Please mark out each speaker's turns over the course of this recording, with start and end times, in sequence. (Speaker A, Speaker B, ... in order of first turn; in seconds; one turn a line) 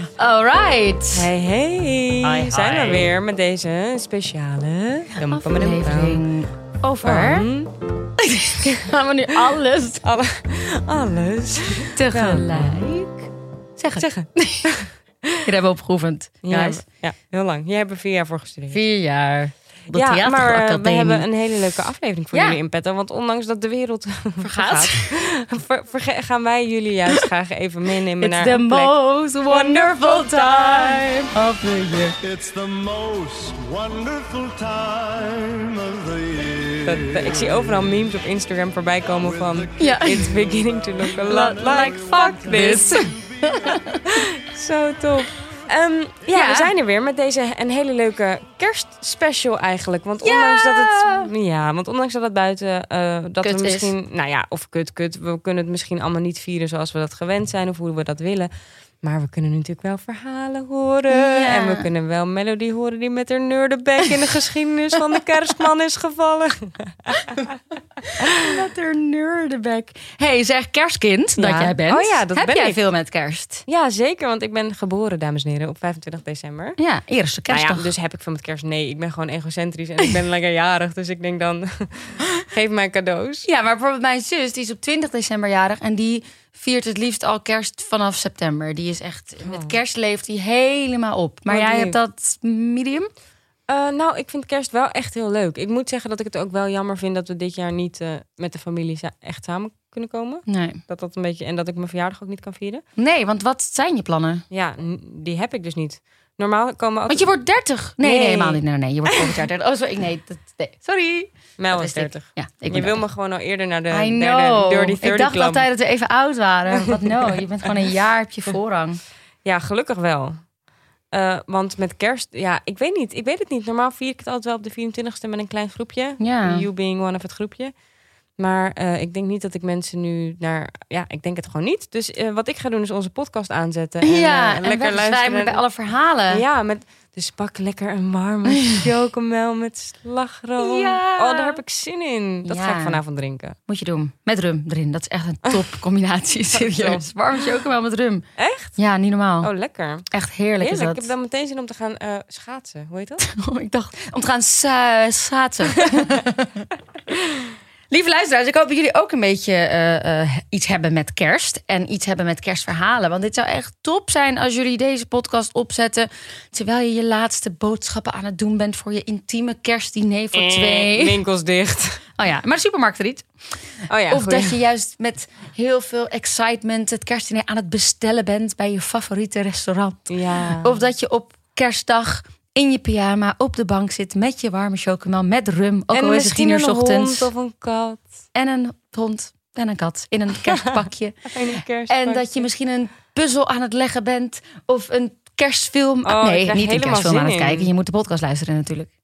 Speaker A: 0.2-1.3
Speaker B: 1.1-6.2
Speaker A: 2.2-3.1
Speaker A: 5.2-7.5
Speaker B: 7.0-7.8
Speaker A: 8.2-10.0
Speaker B: 8.6-12.9
Speaker A: 11.9-13.2
Speaker A: 13.8-14.8
Speaker B: 14.0-15.4
Speaker A: 15.4-16.8
Speaker B: 16.4-18.8
Speaker A: 18.7-21.3
Speaker B: 19.9-28.9
Speaker A: 22.3-22.6
Speaker A: 24.4-25.1
Speaker A: 28.2-32.2
Speaker B: 29.5-31.3
Speaker C: 31.9-38.0
Speaker B: 36.8-43.0
Speaker C: 39.2-43.8
Speaker A: 39.8-40.3
Speaker A: 41.2-44.0
Speaker B: 44.1-58.5
Speaker A: 46.3-46.7
Speaker A: 50.2-51.3
Speaker A: 53.4-53.9
Speaker B: 59.0-67.6
Speaker A: 61.1-61.9
Speaker A: 68.0-73.7
Speaker B: 68.2-68.5
Speaker B: 71.4-72.8
Speaker B: 73.7-76.8
Speaker A: 76.8-77.9
Speaker B: 77.5-83.5
Speaker A: 83.4-93.1
Speaker B: 89.4-89.7
Speaker B: 91.5-92.0
Speaker B: 93.7-102.8
Speaker A: 100.5-100.8
Speaker A: 103.0-104.4
Speaker B: 104.5-107.3
Speaker A: 107.1-113.0
Speaker B: 108.0-108.6
Speaker B: 111.6-115.7
Speaker A: 113.9-119.0
Speaker B: 116.7-117.4
Speaker B: 119.5-120.5
Speaker B: 121.1-127.7
Speaker A: 126.2-126.7
Speaker B: 128.4-135.6
Speaker A: 134.0-136.4
Speaker B: 136.3-143.6
Speaker A: 140.6-141.6
Speaker A: 142.4-143.0
Speaker A: 143.7-149.5
Speaker B: 146.5-147.1
Speaker B: 148.4-148.8
Speaker B: 149.4-150.1
Speaker A: 150.1-151.1
Speaker B: 150.6-153.3
Speaker A: 153.2-156.7
Speaker A: 157.9-171.2
Speaker B: 170.3-172.1
Speaker A: 172.2-187.3
Speaker B: 173.9-174.6
Speaker B: 180.1-180.8
Speaker B: 185.9-188.2
Speaker A: 188.3-198.9
Speaker B: 191.3-192.4
Speaker B: 196.1-197.7